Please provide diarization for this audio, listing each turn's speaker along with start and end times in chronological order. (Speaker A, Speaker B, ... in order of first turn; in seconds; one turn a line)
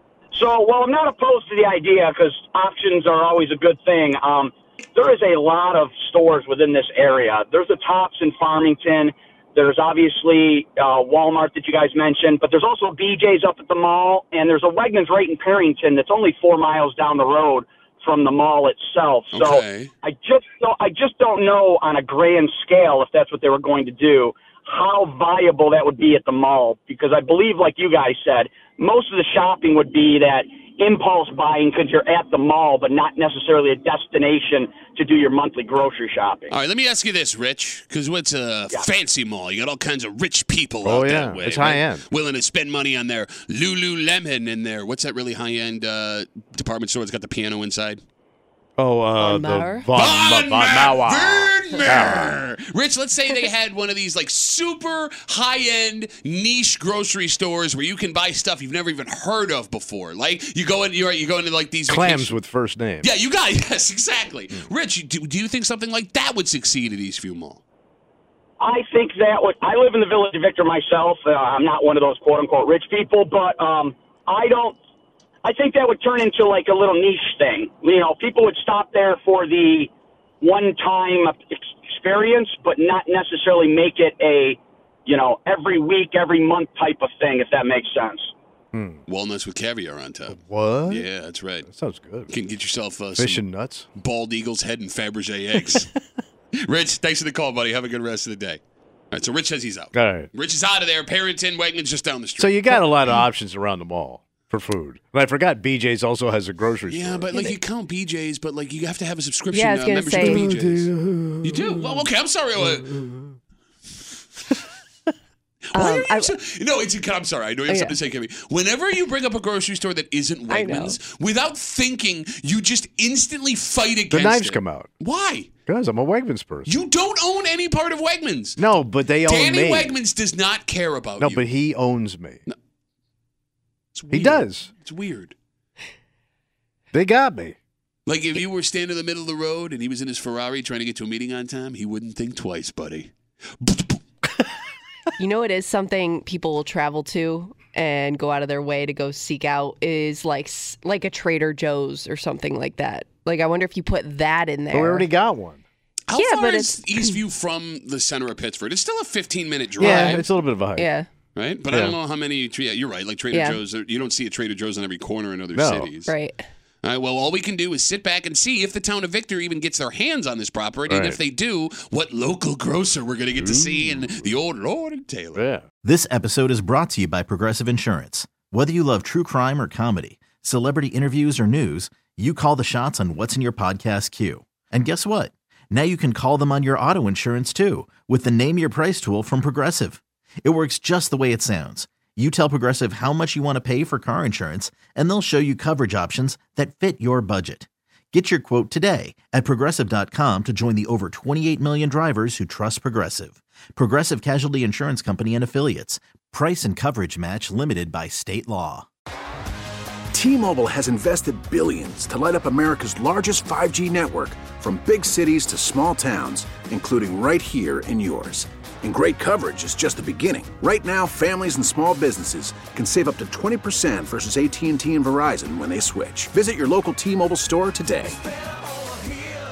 Speaker A: 0.3-36.5
Speaker B: 19.3-19.9
Speaker B: 36.5-48.0
Speaker C: 40.8-42.0
Speaker C: 48.8-52.4
Speaker D: 49.2-49.9
Speaker B: 49.9-62.4
Speaker C: 61.9-63.1
Speaker B: 63.0-67.6
Speaker A: 68.6-74.8
Speaker A: 75.4-79.9
Speaker A: 80.4-88.3
Speaker C: 88.7-89.0
Speaker B: 89.1-91.7
Speaker C: 90.3-91.1
Speaker C: 91.6-92.3
Speaker B: 92.3-93.4
Speaker C: 93.2-93.9
Speaker B: 94.0-95.9
Speaker B: 96.6-98.6
Speaker B: 99.1-103.2
Speaker C: 99.9-100.3
Speaker C: 102.4-107.3
Speaker B: 106.9-110.9
Speaker D: 109.5-110.5
Speaker C: 110.2-111.7
Speaker B: 111.4-113.2
Speaker B: 115.7-125.5
Speaker D: 115.7-116.3
Speaker D: 117.7-118.0
Speaker D: 120.5-121.0
Speaker C: 124.1-124.9
Speaker C: 125.7-126.7
Speaker B: 126.7-128.6
Speaker C: 128.6-129.9
Speaker B: 129.2-131.4
Speaker C: 131.2-132.4
Speaker B: 133.9-135.4
Speaker C: 134.1-134.7
Speaker C: 136.9-137.6
Speaker B: 138.1-144.0
Speaker D: 145.2-155.1
Speaker C: 154.7-155.6
Speaker B: 156.1-160.3
Speaker D: 156.2-157.2
Speaker C: 159.8-160.9
Speaker D: 159.8-160.2
Speaker D: 160.8-161.1
Speaker B: 161.4-166.1
Speaker C: 161.7-161.9
Speaker D: 163.3-163.6
Speaker C: 165.5-165.9
Speaker D: 166.1-166.4
Speaker B: 166.8-175.4
Speaker C: 170.9-171.2
Speaker C: 173.4-174.2
Speaker C: 175.4-175.7
Speaker E: 175.8-208.9
Speaker F: 210.1-228.2